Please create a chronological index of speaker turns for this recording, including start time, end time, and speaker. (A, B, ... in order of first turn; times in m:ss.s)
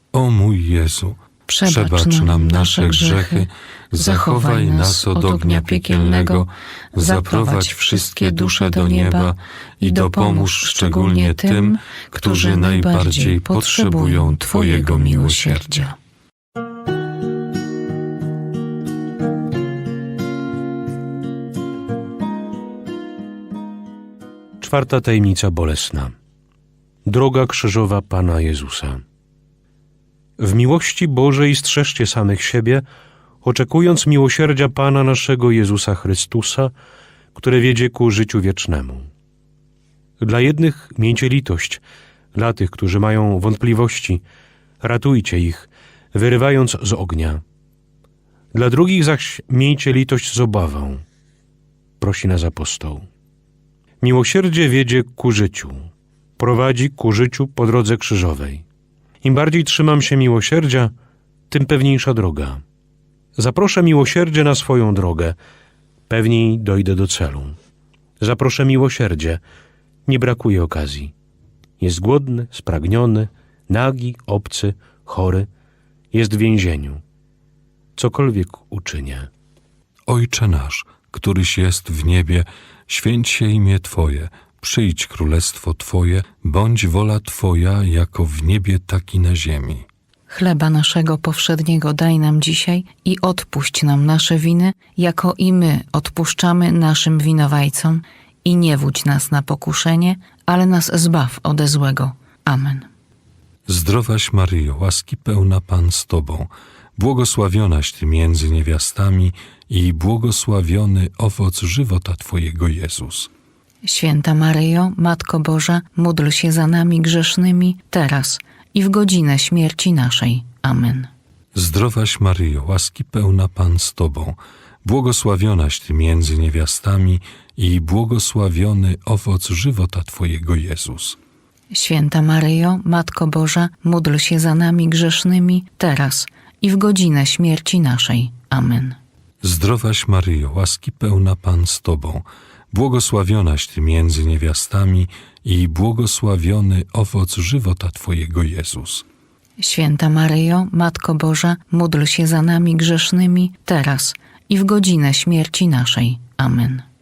0:00.1-0:15.8 A
0:01.5-0:03.5 B
0:04.0-0:06.4 B
0:07.0-0:09.3 B
0:09.9-0:15.9 B
0:24.6-0:26.1 C
0:27.1-0:29.0 C
0:30.4-0:32.8 C
0:33.4-0:36.7 C
0:37.4-0:39.1 C
0:40.2-0:41.8 C
0:42.4-0:44.2 C
0:44.8-0:47.4 C
0:48.5-0:51.0 C
0:52.0-0:53.1 C
0:54.0-0:55.9 C
0:56.4-0:58.6 C
0:59.2-1:00.9 C
1:01.5-1:02.6 C
1:03.4-1:05.4 C
1:06.1-1:07.6 C
1:08.2-1:09.4 C
1:10.1-1:11.1 C
1:11.8-1:15.5 C
1:16.1-1:17.0 C
1:18.0-1:19.3 C
1:20.1-1:29.9 A
1:30.3-1:42.9 B
1:43.7-1:53.3 A
1:53.8-2:01.1 B
2:01.5-2:11.2 A
2:11.7-2:19.0 B
2:19.4-2:29.0 A
2:29.6-2:36.8 B